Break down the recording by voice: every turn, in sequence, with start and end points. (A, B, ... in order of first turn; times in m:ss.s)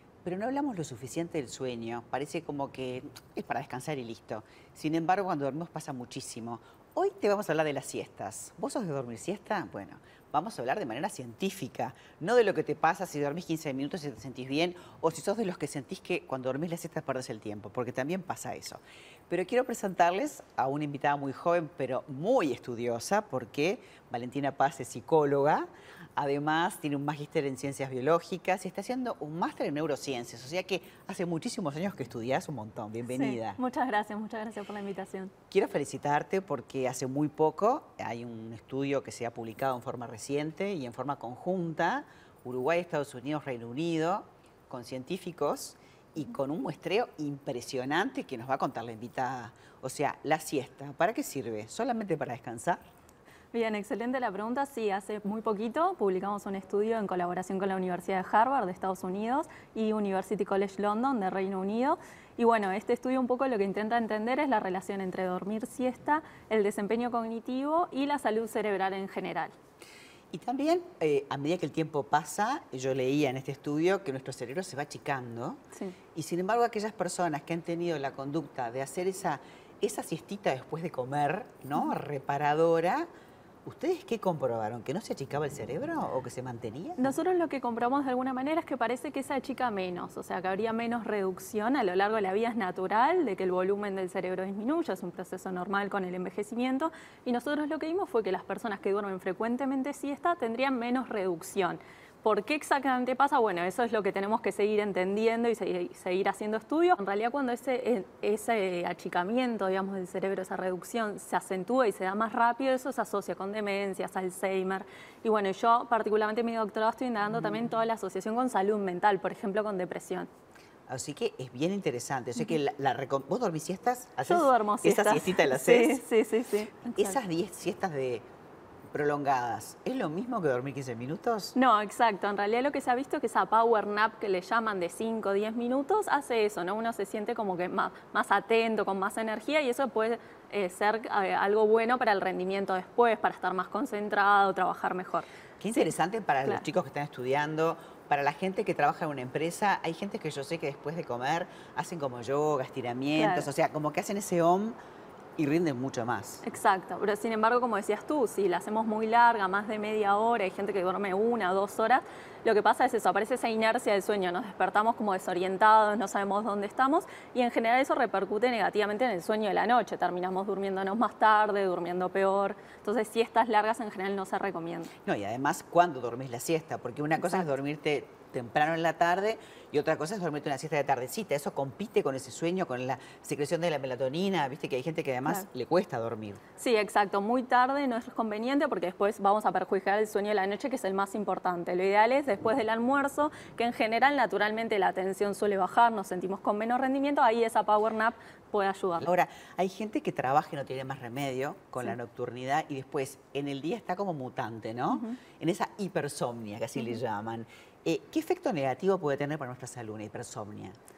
0:00.2-0:33.6 A
0:33.1-0:35.3 B
0:35.5-0:52.8 A
0:53.5-1:09.5 B
1:10.3-1:15.6 A
1:16.2-1:23.1 A
1:23.7-1:27.2 A
1:27.0-2:00.3 B
2:00.9-2:06.0 A
2:04.2-2:07.2 B
2:07.0-2:08.2 A
2:08.9-2:11.6 A
2:11.5-2:25.3 B
2:25.6-2:34.8 A
2:33.1-2:33.5 B
2:35.4-2:36.4 A
2:36.4-2:54.9 B
2:55.0-3:06.4 A
2:57.2-2:57.4 B
3:06.6-3:19.1 B
3:19.0-3:30.8 A
3:24.9-3:25.2 B